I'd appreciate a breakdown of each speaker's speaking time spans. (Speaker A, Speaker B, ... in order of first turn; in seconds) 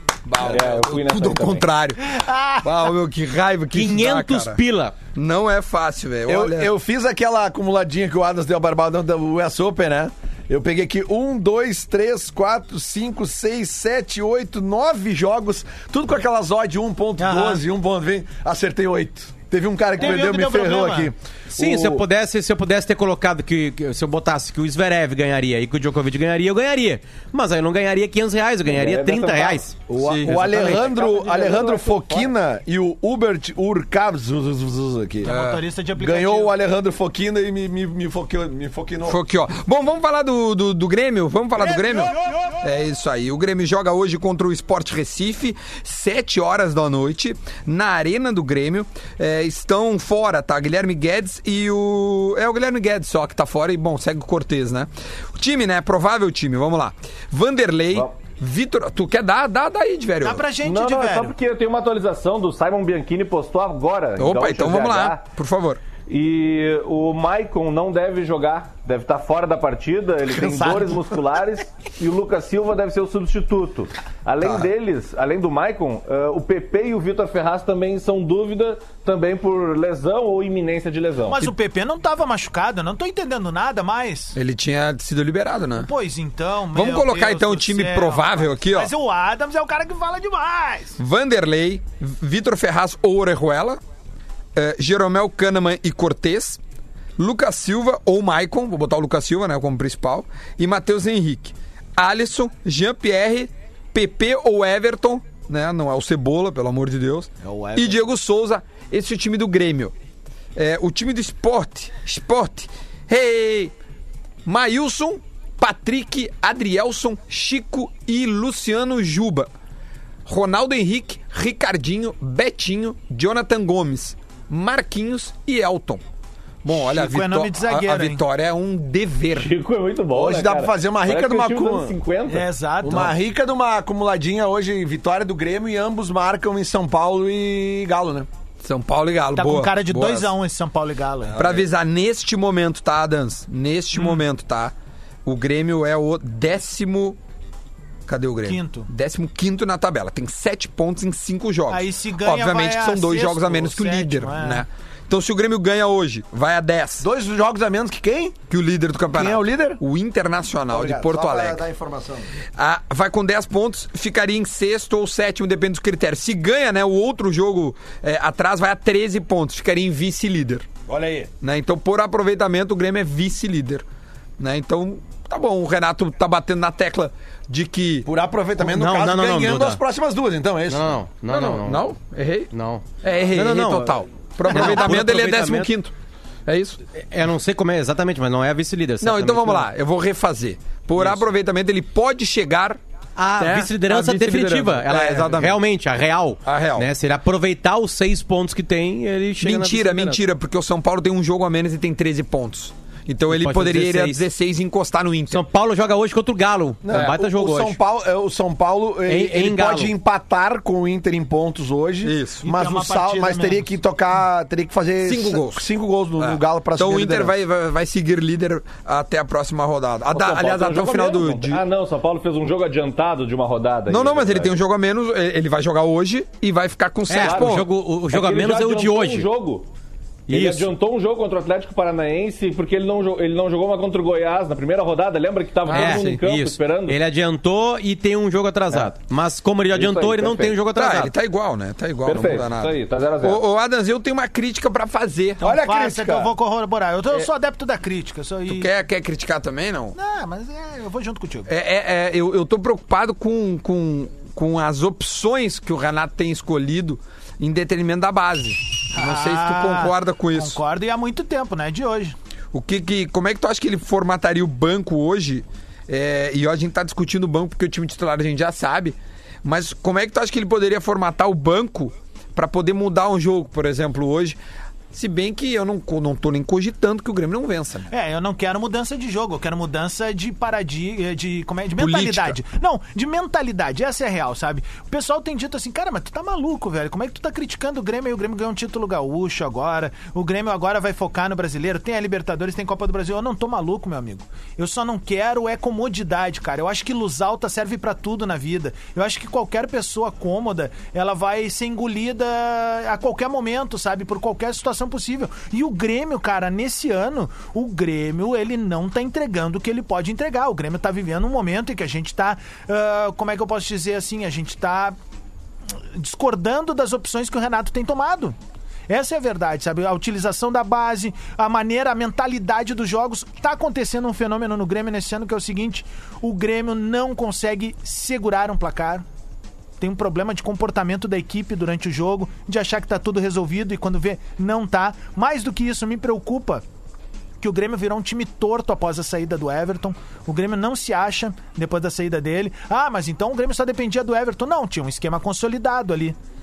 Speaker A: 0.2-4.6, 5.1-6.7, 30.0-30.4, 35.2-35.6, 39.0-60.5, 64.2-65.8, 84.3-85.9, 86.7-88.9, 91.0-93.8, 94.5-96.6, 97.2-109.9, 110.5-113.7, 114.4-119.5, 120.2-126.0, 126.6-129.5, 138.6-140.3, 141.4-144.7, 145.2-147.2, 148.1-157.1, 158.5-161.6, 162.6-170.7, 171.4-173.8, 174.4-178.1, 181.3-185.9, 186.5-186.8, 189.0-192.8, 193.4-195.6, 196.4-196.9, 199.4-205.4, 212.0-212.4, 215.0-215.7, 216.2-221.6, 223.9-227.6, 235.7-236.1, 240.7-245.4, 248.5-249.9, 251.5-260.6, 262.5-274.4, 274.9-277.9, 281.8-282.4
Speaker B: 0.4-1.7, 28.7-29.6, 30.6-32.3, 60.6-65.2, 66.1-81.5, 129.3-132.5, 220.1-224.6, 227.2-229.7, 230.3-237.0, 239.7-240.6, 242.0-243.4
Speaker C: 2.2-2.6, 17.2-17.6, 20.0-21.1, 35.2-36.5, 60.2-61.3, 81.2-84.3, 85.8-91.0, 126.7-128.2, 132.3-133.1, 139.3-141.4, 143.9-144.2, 148.4-148.9, 151.7-154.6, 212.4-213.7, 245.4-248.7, 249.9-251.5, 258.9-262.1, 277.9-314.9, 315.9-318.3, 318.9-329.0, 329.8-336.6, 337.4-346.1
Speaker D: 3.7-5.0, 21.5-30.9, 178.6-179.8, 180.7-181.9, 182.5-185.7, 186.9-189.7, 191.0-191.2, 193.2-200.2, 203.3-204.2, 205.3-207.8, 209.1-209.9, 227.1-229.3, 230.3-230.7, 235.7-241.1
Speaker E: 6.2-21.1, 29.9-35.4, 36.0-39.2, 70.5-71.0, 107.4-108.0, 130.1-132.0, 132.8-138.3, 157.0-158.4, 159.1-159.8, 160.7-162.3, 170.9-171.3, 178.0-181.0, 206.8-217.3, 245.4-246.3